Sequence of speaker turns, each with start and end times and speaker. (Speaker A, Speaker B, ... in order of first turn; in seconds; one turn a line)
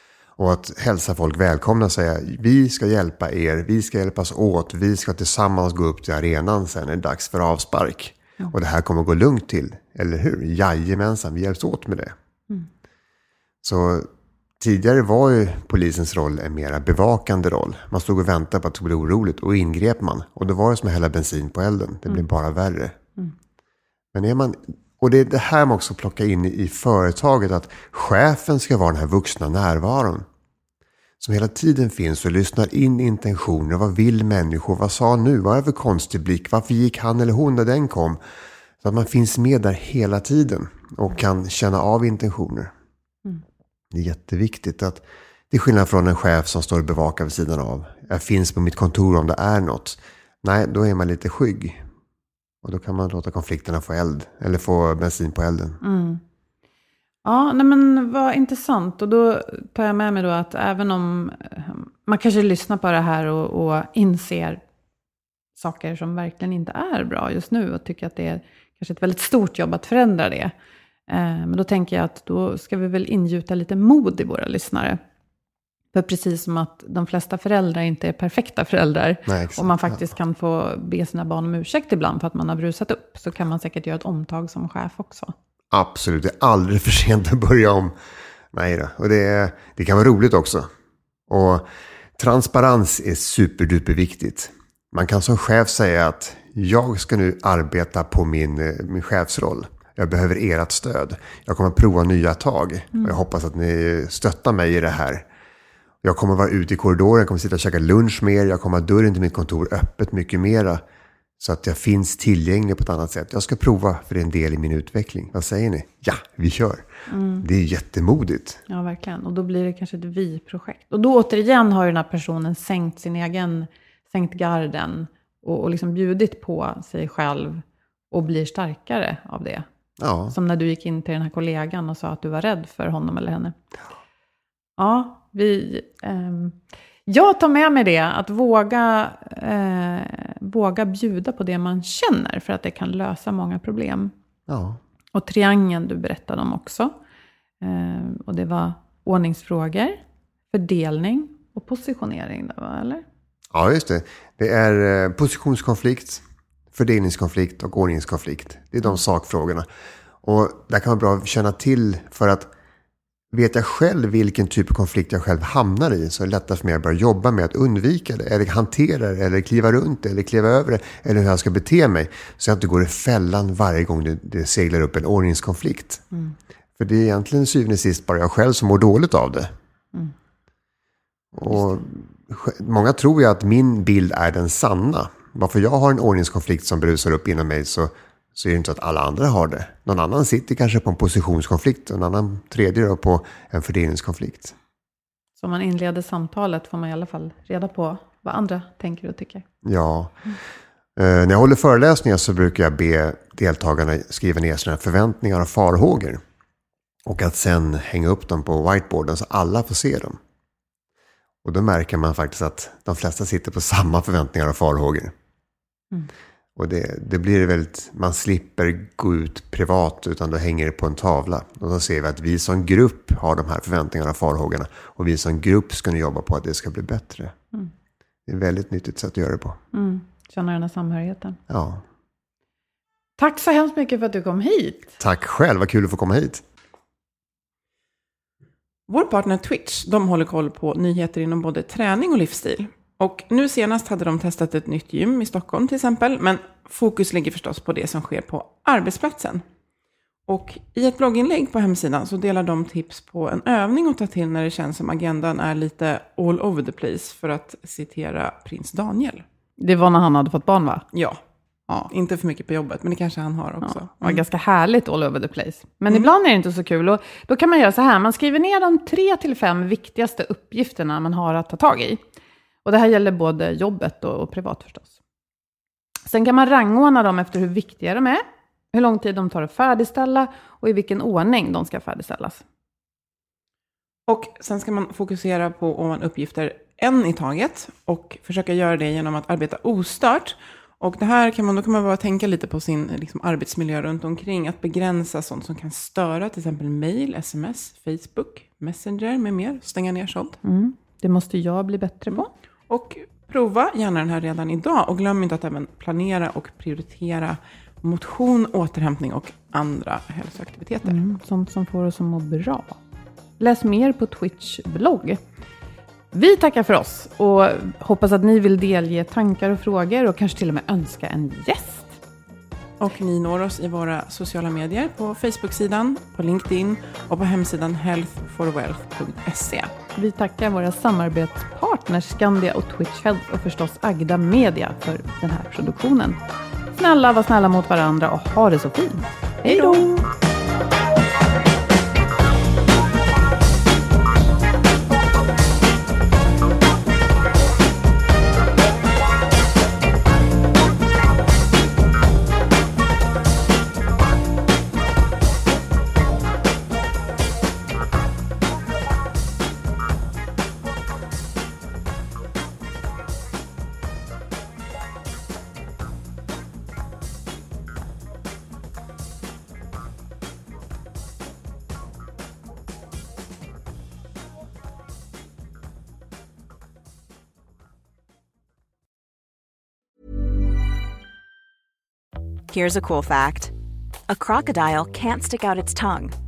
Speaker A: 0.4-12.1
Speaker A: 13.6-14.1
Speaker A: 14.6-23.0
Speaker A: 24.1-30.3
Speaker A: 31.2-38.2
Speaker A: 38.8-42.7
Speaker A: 43.9-51.8
Speaker A: 52.6-55.8
Speaker B: 55.8-56.2
Speaker B: 57.2-64.6
Speaker B: 65.6-70.5
Speaker B: 71.1-75.0
Speaker B: 75.9-85.3
Speaker A: 79.3-80.0
Speaker A: 85.7-88.0
Speaker A: 88.5-90.7
Speaker A: 91.3-91.6
Speaker A: 92.2-105.2
Speaker A: 106.0-110.8
Speaker A: 111.4-116.9
Speaker B: 117.1-117.4
Speaker A: 117.4-118.6
Speaker B: 118.7-129.6
Speaker A: 130.0-130.4
Speaker B: 130.3-133.6
Speaker B: 134.8-136.6
Speaker B: 137.1-144.1
Speaker A: 144.5-144.8
Speaker B: 145.1-146.9
Speaker B: 147.6-150.0
Speaker B: 150.5-153.0
Speaker A: 153.5-159.7
Speaker A: 160.2-162.5
Speaker A: 163.3-176.0
Speaker A: 176.8-179.5
Speaker A: 181.3-194.5
Speaker B: 181.5-181.8
Speaker B: 195.4-199.4
Speaker A: 199.6-200.2
Speaker A: 200.9-206.2
Speaker A: 207.1-210.2
Speaker A: 211.4-215.1
Speaker A: 216.6-227.3
Speaker A: 228.3-229.6
Speaker B: 229.7-231.4
Speaker A: 231.5-231.8
Speaker B: 233.2-234.9
Speaker A: 235.0-236.4
Speaker C: 238.9-249.4
Speaker C: 250.3-259.2
Speaker B: 259.6-260.8
Speaker C: 260.9-261.2
Speaker C: 261.9-264.2
Speaker B: 263.6-272.0
Speaker B: 272.6-274.9
Speaker B: 276.1-282.4
Speaker C: 284.1-300.4
Speaker B: 300.4-302.3
Speaker C: 302.1-311.0
Speaker B: 310.8-312.8
Speaker B: 313.4-315.2
Speaker B: 316.1-321.9
Speaker C: 322.8-329.7
Speaker B: 329.9-336.2
Speaker B: 336.8-340.0
Speaker C: 339.4-340.0
Speaker D: 382.5-383.5
Speaker D: 384.1-386.1